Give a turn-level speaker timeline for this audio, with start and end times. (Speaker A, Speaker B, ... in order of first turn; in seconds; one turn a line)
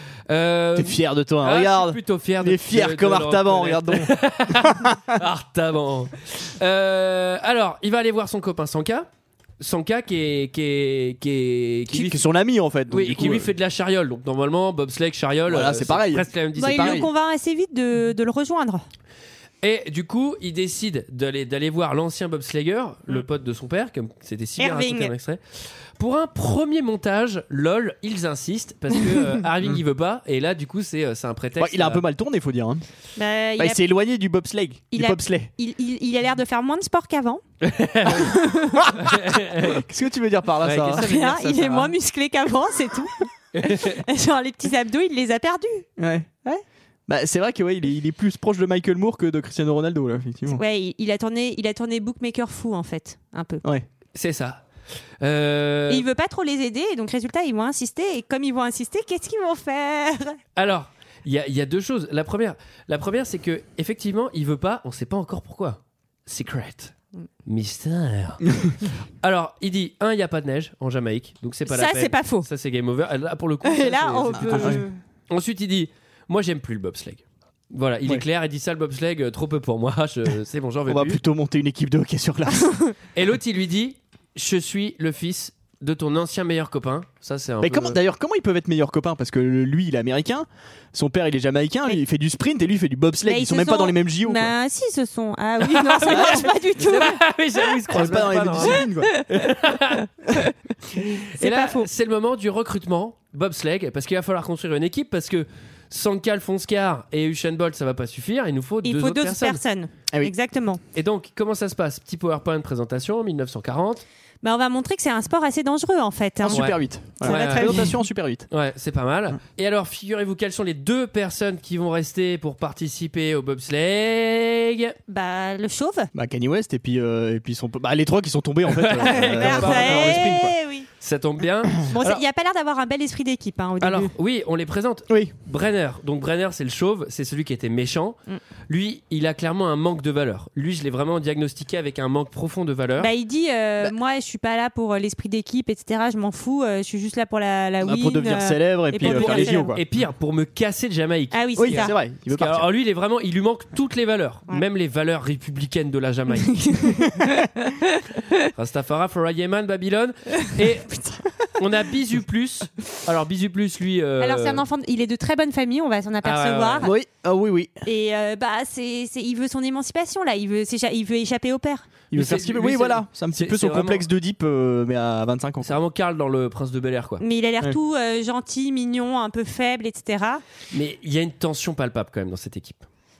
Speaker A: 0.3-9.1
Speaker B: 0.7-5.1
Speaker A: 9.6-12.2
Speaker B: 11.9-13.5
Speaker A: 12.9-17.0
Speaker B: 15.5-17.1
Speaker C: 16.6-18.8
Speaker A: 19.6-32.0
Speaker C: 24.6-25.1
Speaker B: 31.6-32.8
Speaker C: 33.1-33.8
Speaker B: 33.6-35.5
Speaker C: 34.9-37.4
Speaker A: 37.6-38.4
Speaker C: 38.1-38.8
Speaker A: 38.9-39.8
Speaker B: 39.6-41.0
Speaker A: 40.6-41.9
Speaker C: 40.9-45.9
Speaker A: 43.5-44.0
Speaker B: 46.0-46.3
Speaker B: 47.1-50.6
Speaker C: 50.5-53.6
Speaker A: 54.1-54.6
Speaker A: 55.2-56.0
Speaker C: 55.9-60.4
Speaker A: 60.5-66.9
Speaker A: 67.5-68.5
Speaker A: 69.2-81.2
Speaker C: 71.7-72.5
Speaker C: 73.6-75.0
Speaker B: 74.4-74.8
Speaker B: 80.9-82.8
Speaker C: 82.6-82.9
Speaker A: 83.1-88.0
Speaker B: 87.6-94.5
Speaker C: 93.2-97.2
Speaker A: 95.6-100.0
Speaker B: 96.0-96.5
Speaker B: 97.9-99.1
Speaker C: 98.6-99.5
Speaker A: 101.0-109.6
Speaker C: 101.4-101.9
Speaker C: 108.8-110.8
Speaker A: 110.9-114.0
Speaker C: 114.4-118.0
Speaker B: 116.4-118.5
Speaker A: 116.5-117.9
Speaker A: 118.5-125.0
Speaker C: 125.1-126.1
Speaker B: 126.1-130.5
Speaker A: 128.7-132.2
Speaker C: 129.0-130.9
Speaker C: 131.9-134.1
Speaker A: 133.8-138.2
Speaker A: 138.7-143.1
Speaker C: 143.0-149.7
Speaker B: 147.8-149.8
Speaker A: 149.0-156.6
Speaker C: 151.3-151.9
Speaker B: 151.6-152.7
Speaker C: 156.4-157.7
Speaker A: 158.5-160.9
Speaker A: 161.6-164.6
Speaker C: 164.2-166.9
Speaker A: 166.2-166.9
Speaker B: 166.8-167.8
Speaker C: 167.8-171.9
Speaker B: 172.1-175.7
Speaker A: 172.1-174.1
Speaker A: 175.6-177.2
Speaker C: 177.2-180.4
Speaker A: 180.7-182.8